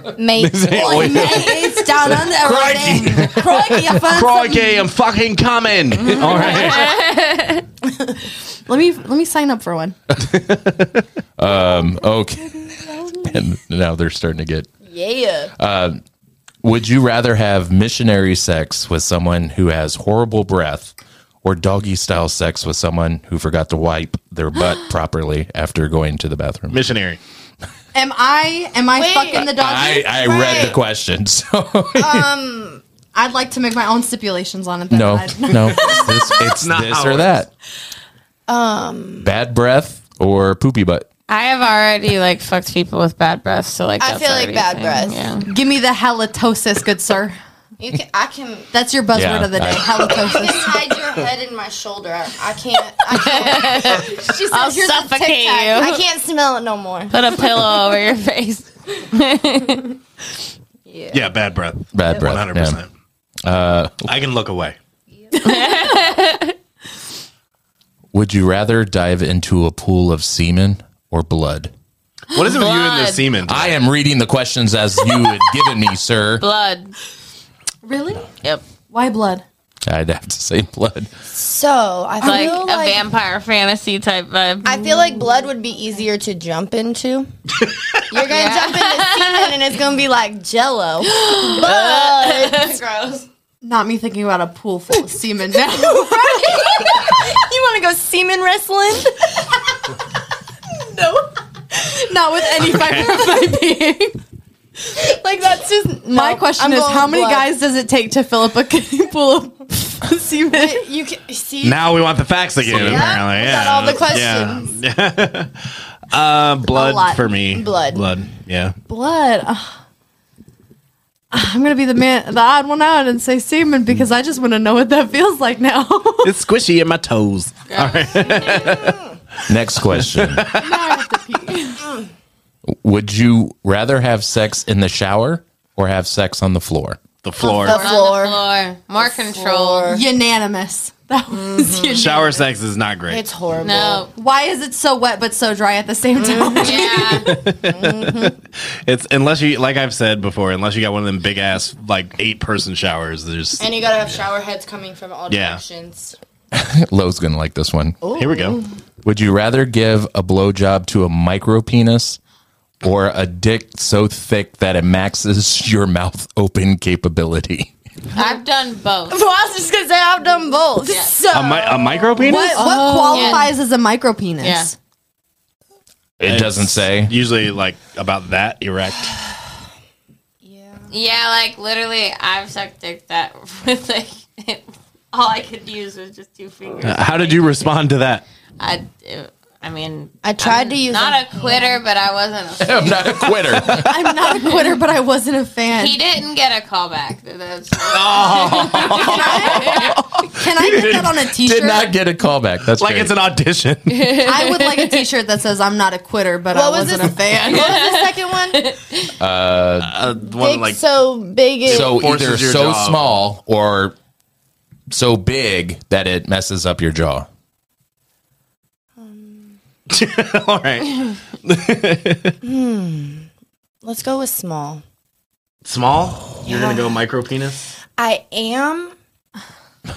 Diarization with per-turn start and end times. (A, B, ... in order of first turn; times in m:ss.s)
0:00.2-0:01.9 A
0:00.3-0:07.0 B
0:00.8-0:04.8 C
0:06.2-0:07.6 D
0:08.7-0:10.0 C
0:10.2-0:11.0 B
0:11.4-0:14.7 E
0:14.8-0:15.5 A
0:15.6-0:16.0 E
0:16.6-0:26.8 E
0:26.7-0:27.2 B
0:27.9-0:30.1 C
0:29.0-0:30.8 A
0:29.3-0:32.3 E
0:31.9-0:32.8 A
0:33.1-0:36.2 C
0:34.9-0:37.5 E
0:35.9-0:37.4 B
0:38.5-0:39.3 A
0:39.2-0:41.1 E
0:41.3-0:45.5 D
0:44.0-0:45.3 A
0:45.4-0:47.4 C
0:47.8-0:48.7 A
0:48.7-0:50.8 C
0:49.1-0:50.0 E
0:50.1-0:54.1 A
0:53.1-0:56.0 D
0:53.8-0:56.0 C
0:55.7-0:57.2 A
0:57.1-0:59.9 D
1:00.9-1:01.2 A
1:01.1-1:02.9 B
1:01.9-1:02.8 E
1:03.4-1:04.1 E
1:04.0-1:04.8 B
1:05.4-1:06.5 D
1:08.1-1:11.7 E
1:12.3-1:13.7 B
1:12.3-1:13.2 D
1:13.4-1:16.4 E
1:16.4-1:16.9 D
1:17.8-1:18.3 C
1:18.9-1:19.4 C
1:19.9-1:21.1 E
1:21.3-1:23.0 A
1:22.2-1:25.2 D
1:24.6-1:27.3 A
1:27.6-1:28.0 B
1:28.1-1:33.2 A
1:28.3-1:29.6 D
1:31.0-1:32.8 D
1:33.6-1:36.6 C
1:35.7-1:39.3 A
1:41.7-1:44.2 C
1:42.7-1:43.2 B
1:45.0-1:47.5 A
1:46.1-1:50.8 C
1:50.5-1:52.0 A
1:51.6-1:58.8 B
1:52.6-1:54.8 A
1:56.6-1:57.3 C
1:57.5-1:58.1 A
1:58.9-1:59.7 C
2:01.3-2:06.3 C
2:06.2-2:09.0 B
2:07.7-2:08.8 D
2:09.5-2:10.5 E
2:09.8-2:11.0 B
2:10.6-2:11.8 C
2:12.7-2:17.0 E
2:17.2-2:17.9 B
2:17.4-2:18.4 A
2:17.4-2:19.9 D
2:19.0-2:20.0 A
2:19.9-2:22.4 C
2:21.5-2:22.1 A
2:22.0-2:23.2 B
2:23.1-2:24.1 A
2:23.6-2:24.1 D
2:24.1-2:27.4 C
2:26.2-2:28.3 A
2:26.6-2:27.3 D
2:27.2-2:33.6 B
2:33.6-2:36.2 A
2:35.3-2:35.6 B
2:36.5-2:38.0 E
2:38.0-2:38.7 A
2:38.2-2:38.6 B
2:39.0-2:42.2 E
2:42.8-2:47.7 E
2:48.1-2:49.2 D
2:49.1-2:53.5 A
2:50.8-2:51.2 D
2:51.3-2:52.6 B
2:52.2-2:54.7 C
2:52.6-2:53.5 D
2:54.4-2:54.7 D
2:56.2-2:57.1 E
2:56.2-2:59.1 B
3:00.4-3:00.9 A
3:00.9-3:07.7 D
3:06.8-3:08.2 B
3:08.6-3:13.7 D
3:10.2-3:11.8 A
3:12.6-3:14.0 E
3:13.7-3:16.0 C
3:14.3-3:14.7 D
3:15.7-3:20.0 D
3:17.8-3:21.2 B
3:18.8-3:21.9 C
3:21.2-3:23.1 E
3:22.7-3:24.2 B
3:23.9-3:25.0 D
3:24.2-3:27.8 C
3:26.5-3:28.6 A
3:27.5-3:29.1 D
3:29.2-3:29.9 E
3:29.8-3:30.8 B
3:30.3-3:32.0 A
3:31.6-3:33.1 B
3:31.7-3:34.0 E
3:34.9-3:37.3 E
3:39.0-3:39.5 A
3:39.9-3:42.4 B
3:42.4-3:43.2 A
3:43.8-3:44.8 A
3:45.6-3:47.7 B
3:46.4-3:46.9 A
3:48.0-3:48.9 A